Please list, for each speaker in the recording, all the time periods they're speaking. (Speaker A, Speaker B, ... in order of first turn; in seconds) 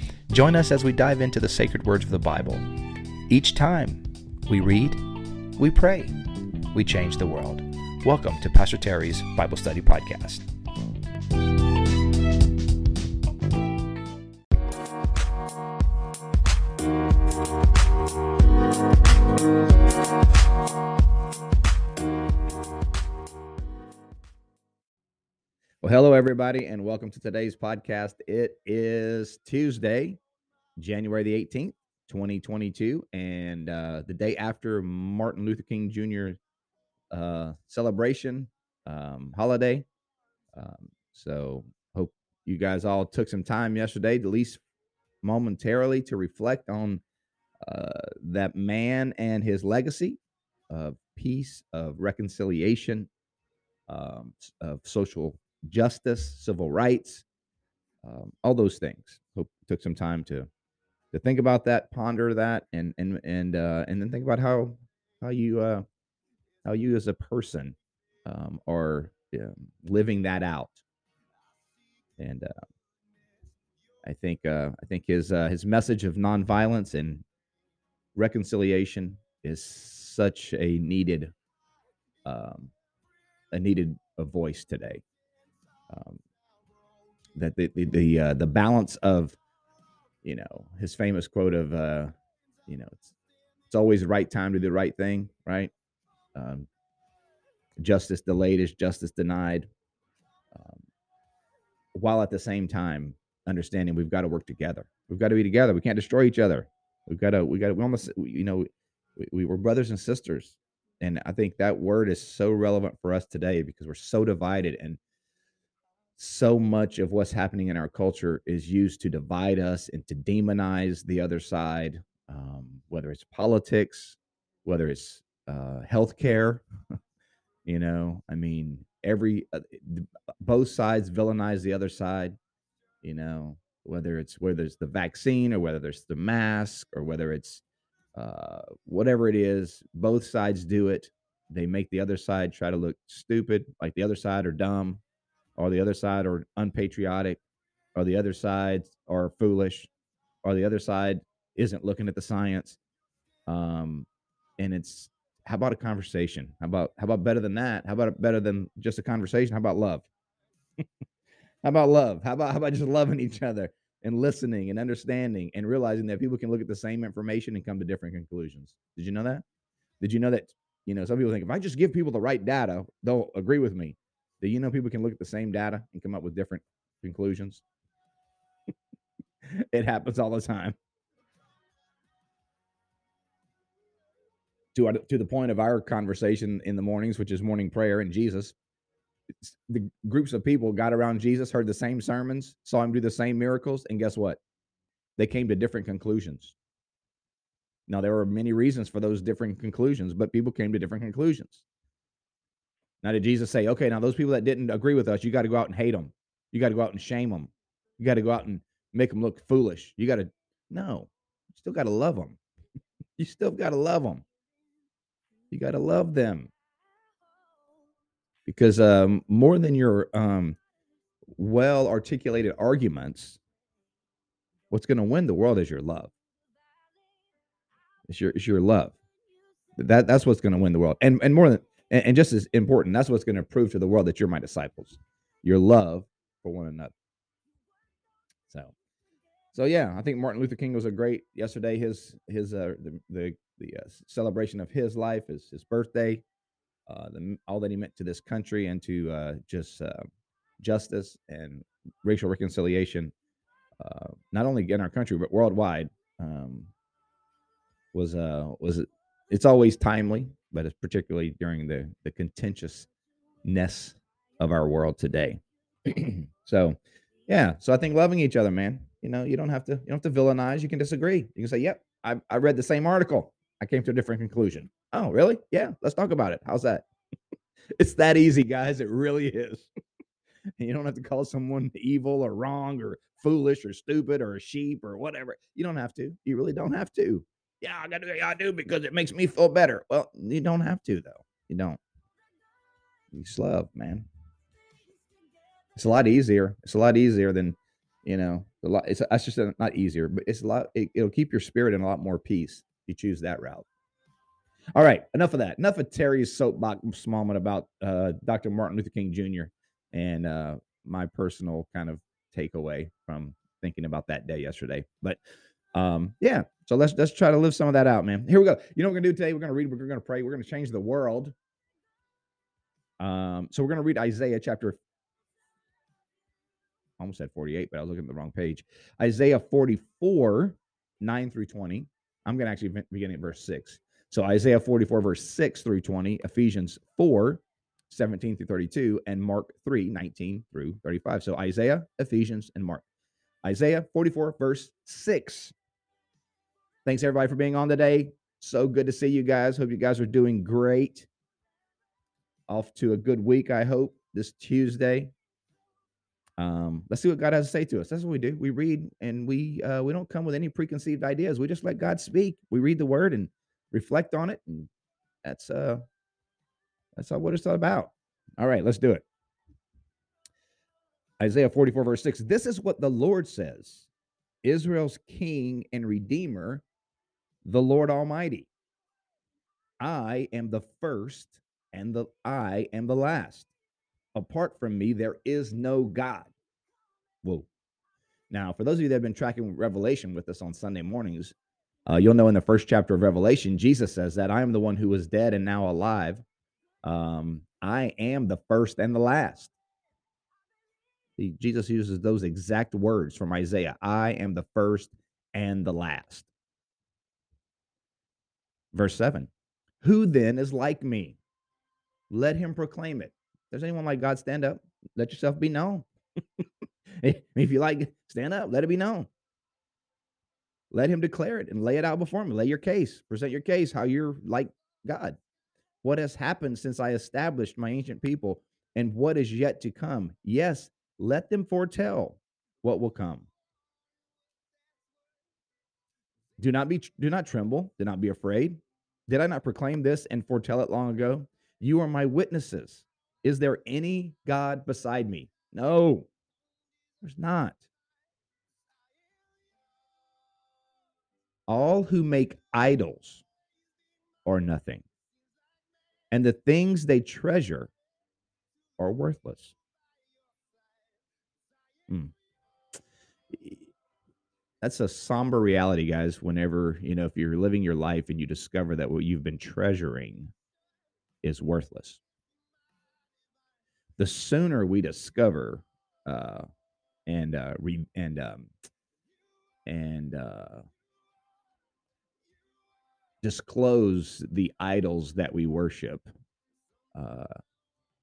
Speaker A: 0.3-2.6, 3.3-5.0, 5.6-6.2, 6.7-10.4, 25.8-30.2, 30.8-36.4, 37.1-39.9, 40.5-44.6, 45.2-47.0, 47.6-50.2, 50.7-53.1, 53.9-57.2, 58.0-60.5, 61.1-65.8, 66.6-70.8, 72.2-72.5, 74.0-77.2, 78.1-81.3, 82.2-82.7, 83.5-85.0, 85.9-86.2, 87.3-89.4, 90.2-92.1, 92.7-93.1, 93.7-95.7, 96.3-96.7, 97.8-99.7, 100.5-100.8, 101.9-115.0, 116.2-126.6, 127.7-132.4, 133.0-137.6, 138.1-145.0, 145.6-147.4, 147.9-149.9, 150.4-152.8, 153.5-154.1, 154.6-160.1, 161.6-169.4, 170.0-177.6, 179.4-180.8, 184.7-188.5, 189.4-194.4, 195.2-196.5, 197.9-201.6, 203.0-212.4, 213.2-214.2, 215.5-216.5, 218.4-220.6, 221.4-223.4, 224.7-226.1, 228.1-228.9, 229.8-236.9, 238.5-238.7, 239.5-246.2, 246.9-250.1, 250.6-253.1, 253.8-256.7, 257.9-262.9, 263.4-276.9, 277.8-279.7, 280.6-291.8, 293.1-294.1, 295.8-303.7, 304.7-315.2, 315.7-321.3, 323.0-324.8, 327.0-342.8, 343.4-345.5, 346.8-351.1, 352.5-355.1, 356.4-364.7, 365.2-365.8, 366.9-369.0, 371.2-373.9, 374.4-376.6, 377.4-378.5, 379.8-383.5, 384.1-386.3, 388.3-391.3, 391.9-396.2, 396.8-399.5, 401.2-406.3, 408.7-409.3, 409.8-411.2, 412.1-415.9, 417.0-419.1, 420.7-425.2, 425.8-433.3, 436.4-446.1, 447.0-447.6, 451.5-453.2, 454.2-454.8, 456.1-457.7, 458.8-459.5, 463.3-463.7, 464.6-470.3, 471.2-472.0, 474.0-476.5, 477.1-478.5, 479.6-480.6, 483.2-486.1, 486.9-487.4